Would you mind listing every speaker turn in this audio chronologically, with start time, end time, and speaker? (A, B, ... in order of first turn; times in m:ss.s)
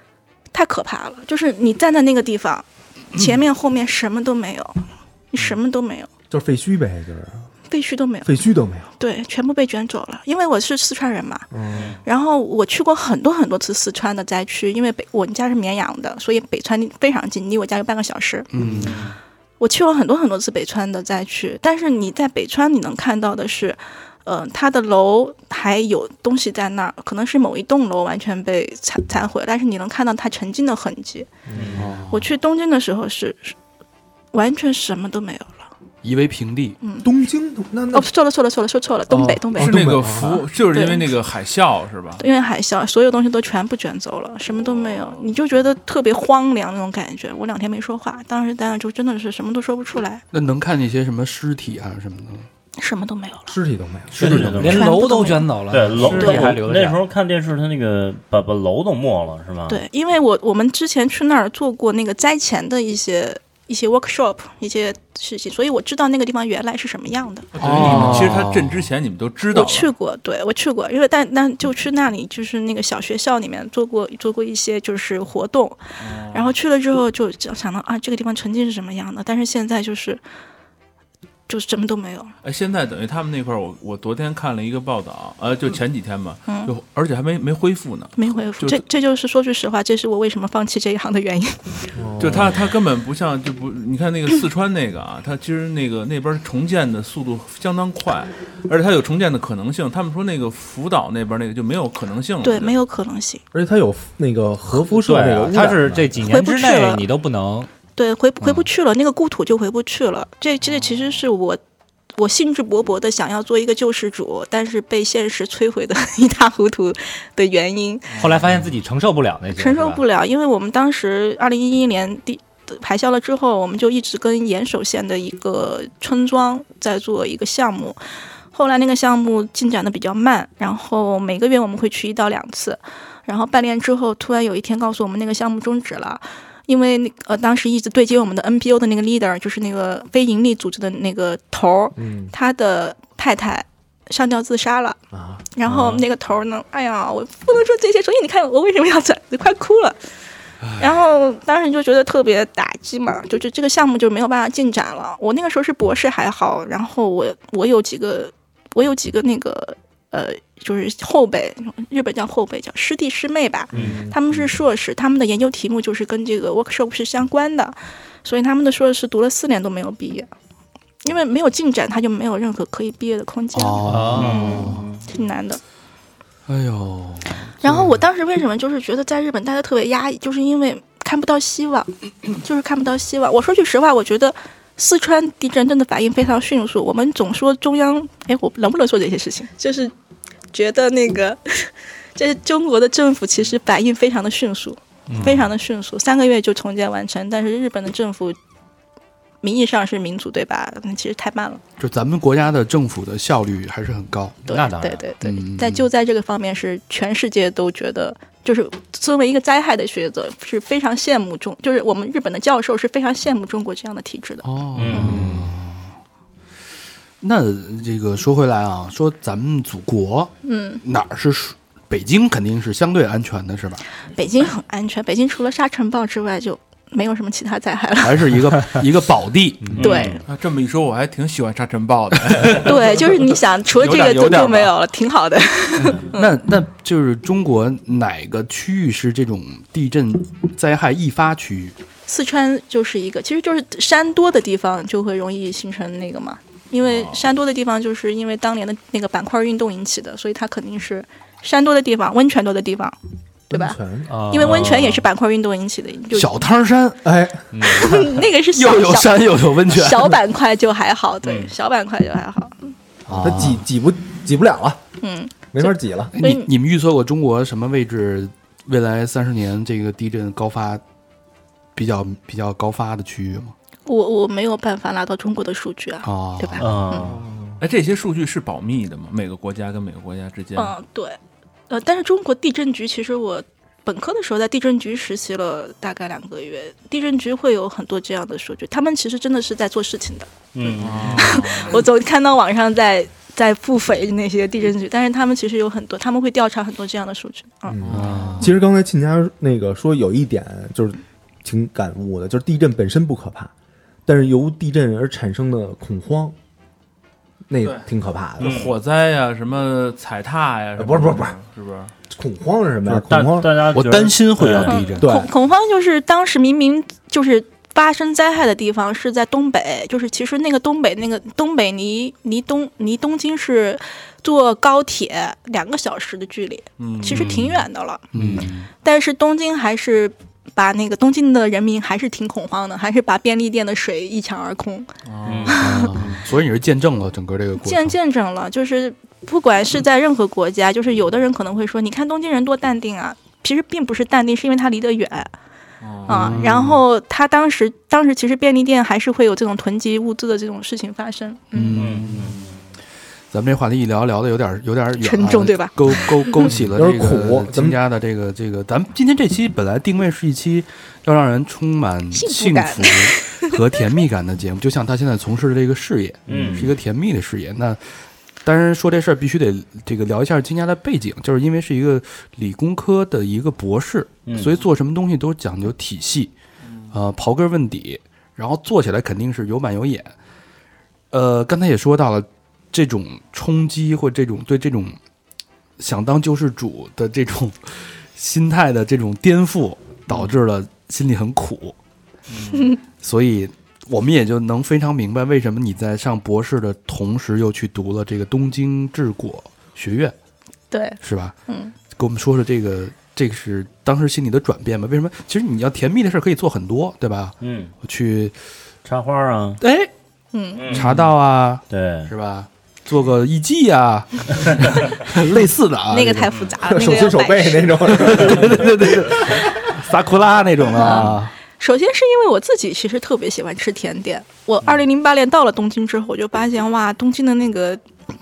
0:00.5-0:06.1 A
0:06.3-0:07.5 B
0:07.7-0:08.4 A
0:08.2-0:08.9 B
0:09.0-0:11.5 A
0:11.5-0:11.9 B
0:11.7-0:12.0 C
0:12.0-0:18.5 A
0:18.5-0:19.0 D
0:18.6-0:18.9 B
0:18.8-0:19.2 C
0:19.6-0:31.3 A
0:31.5-0:31.9 B
0:31.5-0:31.9 C
0:31.8-0:32.3 D
0:32.1-0:33.6 A
0:34.3-0:35.7 A
0:36.0-0:36.8 D
0:36.8-0:37.1 A
0:37.0-0:38.1 B
0:37.9-0:39.8 A
0:39.1-0:40.4 B
0:39.6-0:42.2 E
0:40.7-0:41.1 A
0:42.2-0:50.2 A
0:50.3-0:52.5 D
0:52.8-0:53.6 A
0:53.5-0:54.5 B
0:54.1-0:59.8 C
0:54.2-0:54.7 D
0:54.2-0:57.0 F
0:54.6-0:55.5 A
0:56.0-0:56.5 A
0:59.7-1:08.2 A
1:07.5-1:09.9 E
1:07.6-1:08.8 D
1:09.5-1:20.2 A
1:16.0-1:16.5 E
1:21.5-1:22.3 A
1:22.4-1:28.8 E
1:26.5-1:26.7 A
1:28.2-1:31.9 A
1:31.9-1:32.6 B
1:32.2-1:42.8 E
1:42.4-1:43.4 A
1:43.5-1:46.2 B
1:44.8-1:47.7 F
1:46.2-1:47.0 A
1:48.0-1:51.6 A
1:52.2-1:58.1 A
1:58.1-1:58.5 E
1:58.2-2:00.0 F
1:59.5-2:08.0 A
2:08.5-2:25.0 A
2:22.0-2:22.3 B
2:25.1-2:25.4 B
2:25.5-2:30.0 A
2:30.6-2:30.9 D
2:30.8-2:50.3 A
2:43.7-2:44.5 B
2:43.7-2:44.0 C
2:51.0-2:55.6 A
2:53.5-2:54.8 D
2:53.8-2:54.5 F
2:54.0-2:55.0 C
2:56.5-2:58.0 D
2:57.6-3:09.9 A
3:10.5-3:18.4 A
3:15.1-3:15.5 F
3:19.4-3:21.6 A
3:21.8-3:24.6 D
3:24.5-3:35.1 A
3:25.2-3:25.9 D
3:34.4-3:35.9 D
3:34.7-3:35.4 C
3:35.0-3:35.3 F
3:37.2-3:43.8 D
3:40.4-3:40.8 A
3:44.1-3:48.4 A
3:48.0-3:50.0 D
3:49.8-3:50.2 C
3:49.8-3:50.2 A
3:50.3-3:54.7 E
3:52.3-3:52.6 D
3:52.6-3:56.3 A
3:56.1-4:01.8 D
4:02.1-4:12.9 A
4:06.8-4:07.2 E
4:13.5-4:14.1 B
4:13.5-4:13.8 A
4:14.1-4:15.0 F
4:14.3-4:16.4 A
4:14.4-4:14.9 C
4:16.1-4:17.0 D
4:17.0-4:17.4 B
4:17.5-4:18.0 F
4:17.7-4:20.2 D
4:17.7-4:22.7 A
4:21.2-4:21.5 C
4:23.1-4:23.6 D
4:23.1-4:24.8 B
4:25.0-4:26.5 A
4:25.5-4:26.1 B
4:26.1-4:30.8 D
4:31.7-4:33.5 D
4:33.8-4:37.1 A
4:36.0-4:36.8 D
4:36.6-4:37.2 C
4:37.1-4:37.5 B
4:37.6-4:40.7 E
4:40.6-4:41.2 A
4:41.7-4:57.8 A
4:50.5-4:51.4 C
4:50.8-4:51.8 E
4:57.7-5:03.5 B
4:57.8-4:58.5 E
4:57.9-4:58.6 D
5:04.0-5:06.3 B
5:07.5-5:08.6 B
5:08.4-5:11.9 E
5:08.4-5:08.8 C
5:10.8-5:11.3 B
5:12.1-5:13.7 B
5:13.1-5:14.9 C
5:13.7-5:15.1 D
5:14.6-5:28.0 A
5:15.0-5:15.3 B
5:26.8-5:27.3 E
5:28.1-5:28.7 D
5:28.8-5:34.9 A
5:35.0-5:35.6 E
5:35.2-5:36.2 C
5:35.5-5:35.9 A
5:35.6-5:38.0 D
5:37.6-5:45.3 A
5:45.8-5:46.4 E
5:46.1-5:51.8 A
5:46.1-5:46.8 D
5:51.5-5:52.4 D
5:51.7-5:52.5 C
5:53.3-6:07.8 D
5:55.0-5:56.5 A
5:56.7-5:57.8 B
6:02.1-6:03.6 A
6:06.3-6:06.8 C
6:08.4-6:16.3 D
6:14.2-6:14.6 C
6:16.9-6:20.1 D
6:21.1-6:25.0 D
6:25.8-6:31.7 D
6:32.3-6:32.6 E
6:32.5-6:32.8 A
6:33.0-6:40.1 D
6:40.7-6:41.7 A
6:41.0-6:41.3 D
6:41.9-6:48.3 D
6:47.4-6:47.7 C
6:48.8-6:49.6 C
6:49.6-6:49.9 D
6:50.3-6:50.8 A
6:50.6-6:51.1 C
6:50.7-6:56.3 D
6:51.7-6:52.1 C
6:55.9-6:58.2 A
6:56.3-6:56.6 C
6:56.6-6:59.3 B
6:57.9-7:01.3 D
7:00.7-7:07.8 A